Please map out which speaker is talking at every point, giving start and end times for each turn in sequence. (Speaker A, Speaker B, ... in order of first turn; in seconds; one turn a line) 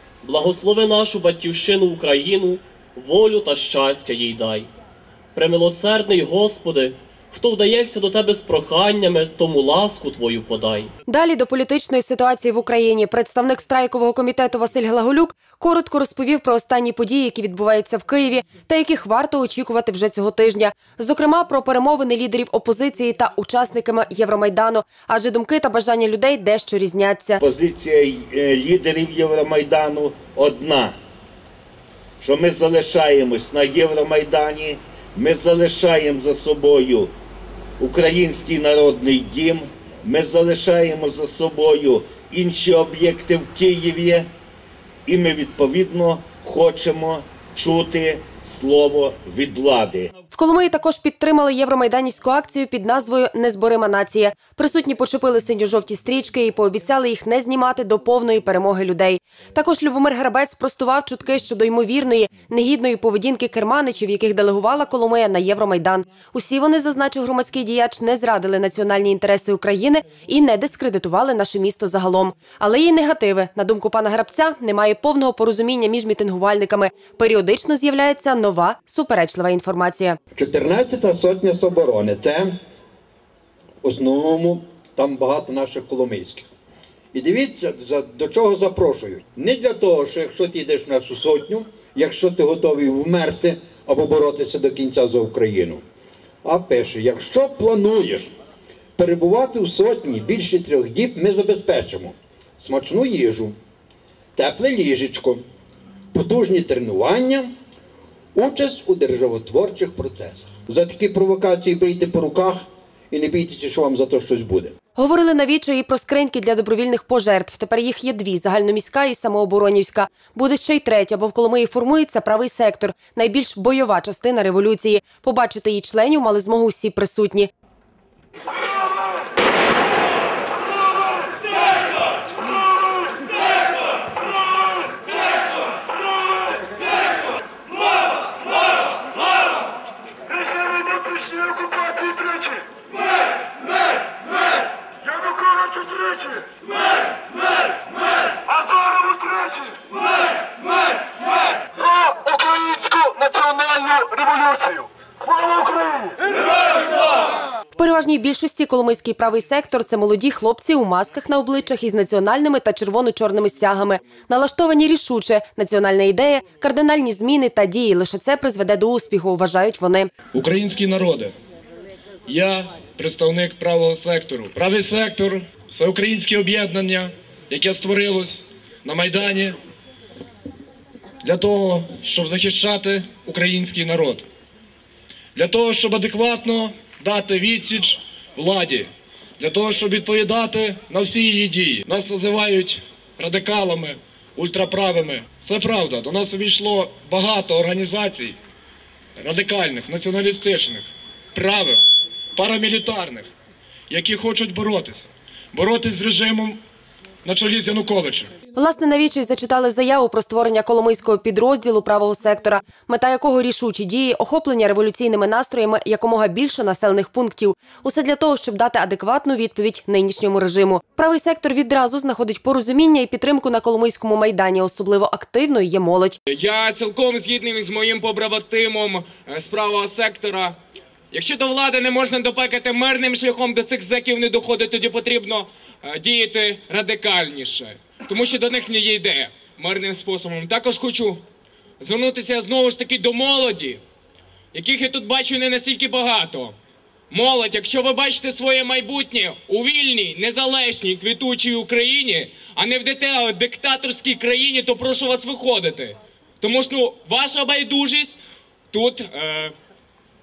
Speaker A: 0.2-4.7
Speaker A: 5.3-10.9
Speaker B: 11.1-27.4
Speaker C: 27.4-31.0
Speaker C: 32.2-37.1
Speaker C: 37.8-44.3
Speaker C: 45.1-50.1
Speaker B: 50.3-80.2
Speaker D: 80.3-82.5
Speaker D: 83.8-86.5
Speaker D: 87.1-95.8
Speaker D: 96.5-98.3
Speaker D: 99.0-103.5
Speaker D: 104.4-105.4
Speaker D: 106.1-107.5
Speaker D: 108.3-114.7
Speaker B: 115.0-127.5
Speaker E: 140.7-142.4
Speaker E: 145.1-146.4
Speaker E: 148.5-149.6
Speaker E: 151.9-156.1
Speaker B: 157.8-170.1
Speaker F: 170.3-171.3
Speaker F: 172.3-179.6
Speaker F: 181.2-184.2
Speaker F: 185.4-198.4
Speaker F: 199.2-201.8
Speaker F: 202.4-203.3
Speaker F: 203.9-206.6
Speaker F: 207.2-208.3
Speaker B: 208.6-226.2
Speaker G: 226.3-230.6
Speaker G: 231.1-241.2
Speaker G: 241.8-243.8
Speaker G: 244.5-246.5
Speaker G: 247.1-258.2
Speaker G: 258.7-259.5